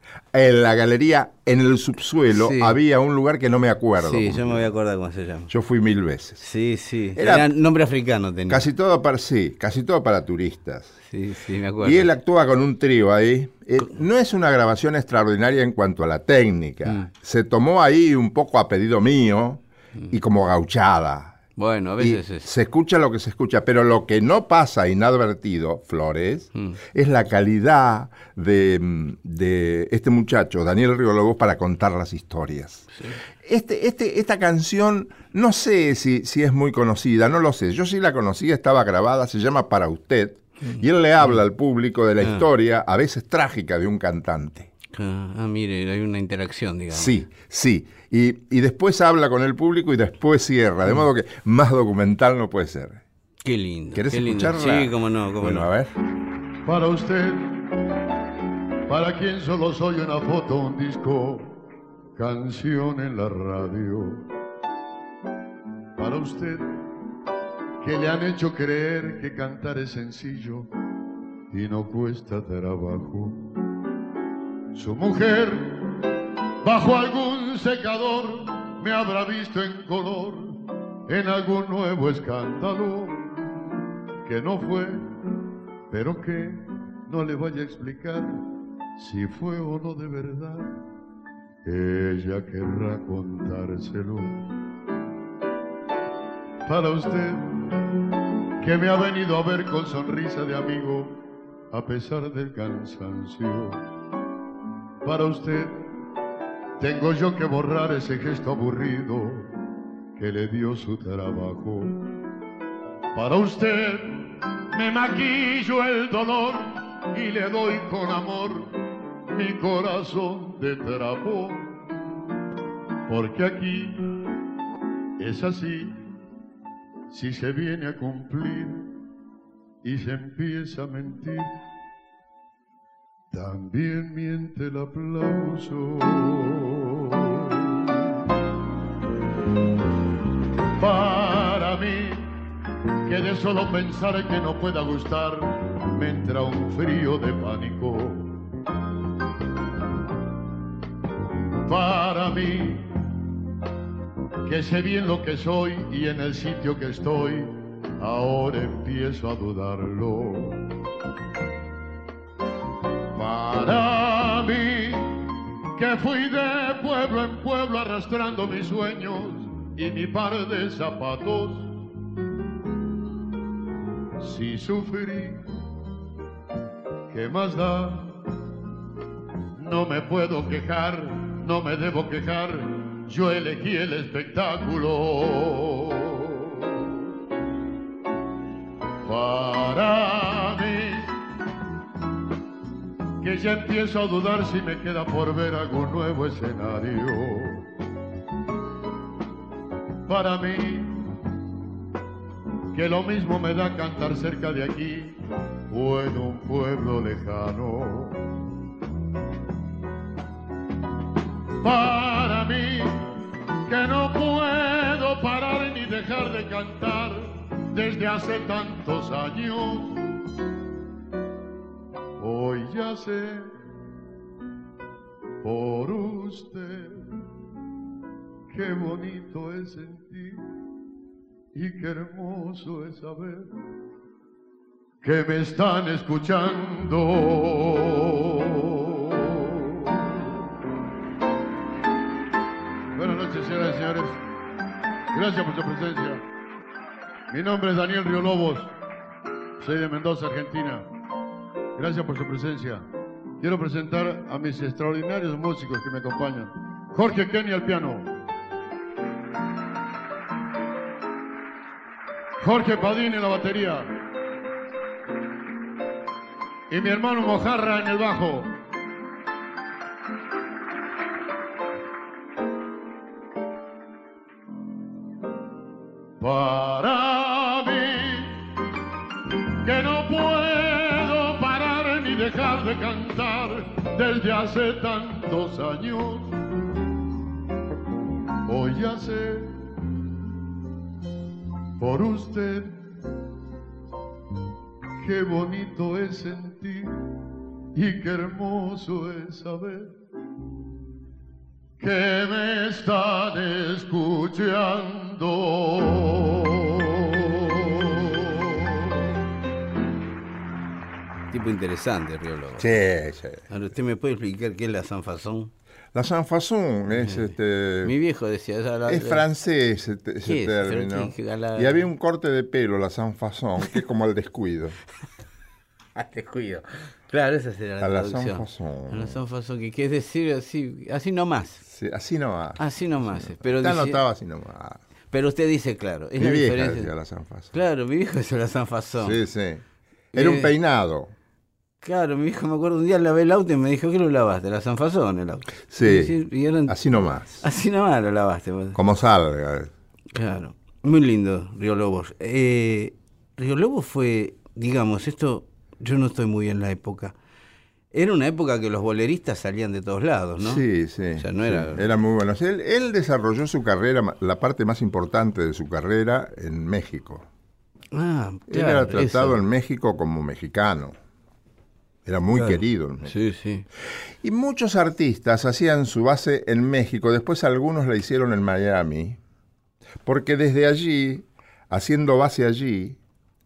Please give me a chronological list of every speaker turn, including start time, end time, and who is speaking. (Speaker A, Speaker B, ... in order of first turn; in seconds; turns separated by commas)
Speaker A: 0.3-4.7, Speaker B: 2.3-2.8, Speaker B: 4.0-5.5, Speaker A: 5.5-6.4, Speaker B: 6.4-8.6, Speaker A: 7.2-7.5, Speaker A: 8.5-10.9, Speaker B: 11.1-12.1, Speaker A: 11.8-21.4, Speaker B: 21.6-22.5, Speaker A: 22.0-32.9, Speaker A: 33.4-44.7, Speaker B: 44.9-47.2, Speaker A: 46.9-53.0, Speaker B: 53.5-55.7, Speaker A: 53.9-55.9, Speaker C: 56.6-57.7, Speaker C: 58.9-61.5, Speaker C: 62.2-64.3, Speaker C: 66.0-66.8, Speaker C: 67.8-70.7, Speaker C: 71.5-73.4, Speaker C: 74.8-76.1, Speaker C: 76.6-83.3, Speaker C: 84.2-85.1, Speaker C: 85.9-88.4, Speaker C: 89.0-90.8, Speaker C: 91.7-94.4, Speaker C: 96.7-97.7, Speaker C: 98.6-101.2, Speaker C: 101.7-103.8, Speaker C: 105.0-105.9, Speaker C: 106.8-109.5, Speaker C: 110.2-112.1, Speaker C: 113.2-118.7, Speaker C: 119.3-121.8, Speaker C: 123.1-124.2, Speaker C: 125.2-126.0, Speaker C: 127.1-128.8, Speaker C: 129.8-131.6, Speaker C: 133.3-138.0, Speaker C: 140.8-142.3, Speaker C: 143.1-148.4, Speaker C: 151.7-153.0, Speaker C: 154.5-160.7, Speaker C: 163.2-171.7, Speaker C: 174.2-175.4, Speaker C: 177.1-178.1, Speaker C: 179.6-186.9, Speaker C: 189.1-191.1, Speaker C: 193.2-197.7, Speaker C: 200.1-201.1, Speaker C: 202.7-205.2, Speaker C: 205.7-208.3, Speaker C: 211.6-213.1, Speaker C: 213.7-220.0, Speaker C: 222.2-223.5, Speaker C: 225.4-227.1, Speaker C: 228.5-230.5, Speaker C: 231.5-233.5, Speaker C: 235.0-240.2, Speaker C: 243.0-244.2, Speaker C: 245.1-246.2, Speaker C: 247.3-248.7, Speaker C: 249.6-250.8, Speaker C: 251.8-252.8, Speaker C: 253.4-258.1, Speaker C: 262.4-263.9, Speaker C: 266.7-268.5, Speaker C: 276.2-278.4, Speaker C: 279.6-286.4, Speaker C: 288.5-289.6, Speaker C: 291.8-292.8, Speaker C: 295.0-297.0, Speaker C: 297.8-299.9, Speaker C: 301.8-308.9, Speaker B: 311.3-312.7, Speaker A: 312.6-313.5, Speaker B: 313.5-315.5, Speaker A: 315.9-317.9, Speaker B: 317.0-317.3, Speaker B: 317.8-319.2, Speaker A: 318.9-324.8, Speaker B: 320.2-321.9, Speaker B: 326.0-331.6, Speaker A: 327.8-329.2, Speaker A: 331.7-332.6, Speaker B: 332.6-334.0, Speaker A: 333.1-334.8, Speaker B: 335.1-336.9, Speaker A: 336.2-337.5, Speaker B: 337.5-339.2, Speaker A: 339.0-339.6, Speaker B: 340.1-340.5, Speaker A: 340.1-341.1, Speaker B: 341.8-346.8, Speaker A: 345.7-346.2, Speaker A: 346.7-347.4, Speaker B: 347.4-348.8, Speaker A: 348.8-349.7, Speaker B: 350.1-357.1, Speaker B: 357.9-360.6, Speaker A: 360.4-367.3, Speaker B: 361.2-361.9, Speaker B: 367.9-369.4, Speaker A: 368.5-370.9, Speaker A: 372.1-373.1, Speaker B: 372.3-373.7, Speaker A: 374.2-379.2, Speaker A: 380.0-383.0